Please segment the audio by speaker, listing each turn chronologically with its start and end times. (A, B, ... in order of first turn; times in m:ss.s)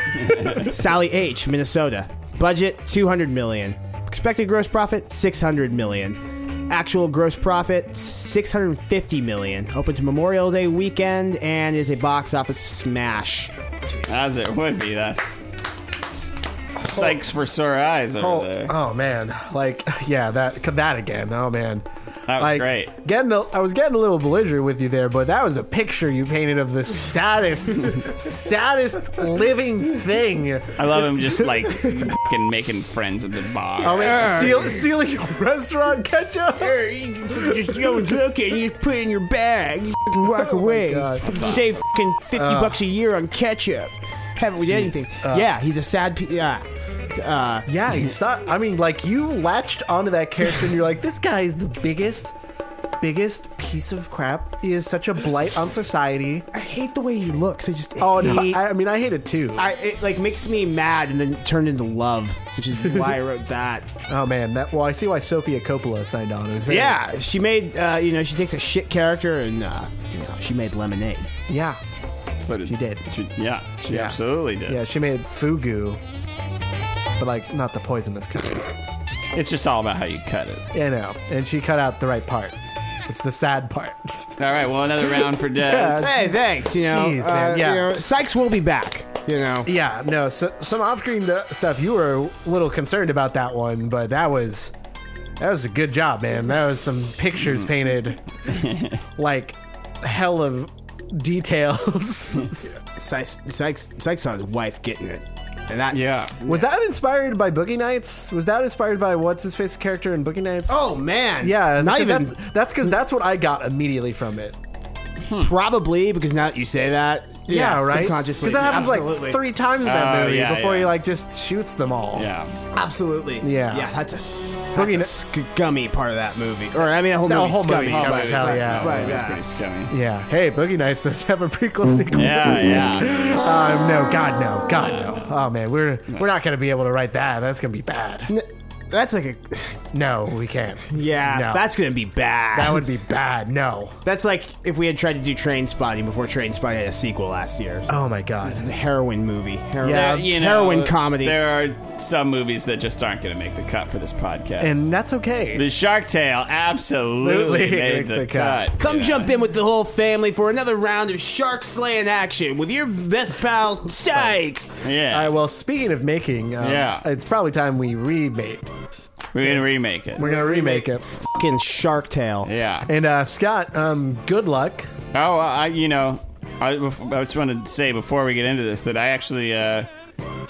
0:00.3-0:13.5 A
0:14.1-0:15.4 B
0:16.0-0:18.8 B
0:16.8-0:17.2 C
0:18.2-0:21.8 C
0:22.3-0:22.9 B
0:22.4-0:32.1 C
0:30.8-0:34.6 B
0:33.8-0:36.8 C
0:34.0-0:34.8 A
0:36.6-0:47.7 A
0:37.4-0:37.7 C
0:40.2-0:41.5 C
0:41.3-0:41.7 B
0:42.4-0:42.8 C
0:44.9-0:45.5 C
0:47.7-0:52.3 C
0:53.0-0:56.5 C
0:56.5-0:58.7 A
0:58.0-0:59.6 C
0:59.6-1:03.9 A
1:04.1-1:07.0 C
1:06.7-1:11.3 A
1:11.5-1:11.8 C
1:12.4-1:14.8 B
1:12.6-1:13.0 C
1:13.9-1:16.0 C
1:17.2-1:18.7 C
1:19.3-1:20.7 B
1:20.7-1:24.4 C
1:24.4-1:26.1 B
1:25.4-1:27.9 C
1:26.0-1:29.7 A
1:29.6-1:34.7 C
1:35.4-1:38.2 C
1:38.5-1:39.0 B
1:39.2-1:42.8 C
1:43.0-1:46.1 A
1:45.9-1:46.5 B
1:46.4-1:54.6 C
1:50.7-1:52.4 A
1:55.4-1:59.4 A
1:57.5-2:02.3 C
1:59.8-2:01.0 B
2:02.1-2:02.5 B
2:02.7-2:09.4 A
2:03.4-2:03.9 C
2:04.8-2:05.1 C
2:07.2-2:09.2 C
2:07.8-2:10.0 B
2:09.9-2:18.3 C
2:12.1-2:13.2 B
2:18.3-2:19.8 A
2:19.9-2:21.7 C
2:20.9-2:22.9 A
2:22.5-2:24.0 C
2:24.0-2:27.9 A
2:27.9-2:28.7 C
2:28.4-2:31.4 A
2:29.8-2:30.4 C
2:29.8-2:34.8 B
2:34.6-2:35.7 C
2:35.5-2:39.3 B
2:37.2-2:38.7 C
2:38.8-2:44.7 A
2:44.8-2:45.3 B
2:45.1-2:48.7 C
2:46.6-2:47.1 B
2:49.3-2:50.3 B
2:49.4-2:51.1 C
2:50.3-2:52.5 A
2:52.4-2:52.9 B
2:52.9-2:54.9 C
2:55.1-2:59.9 B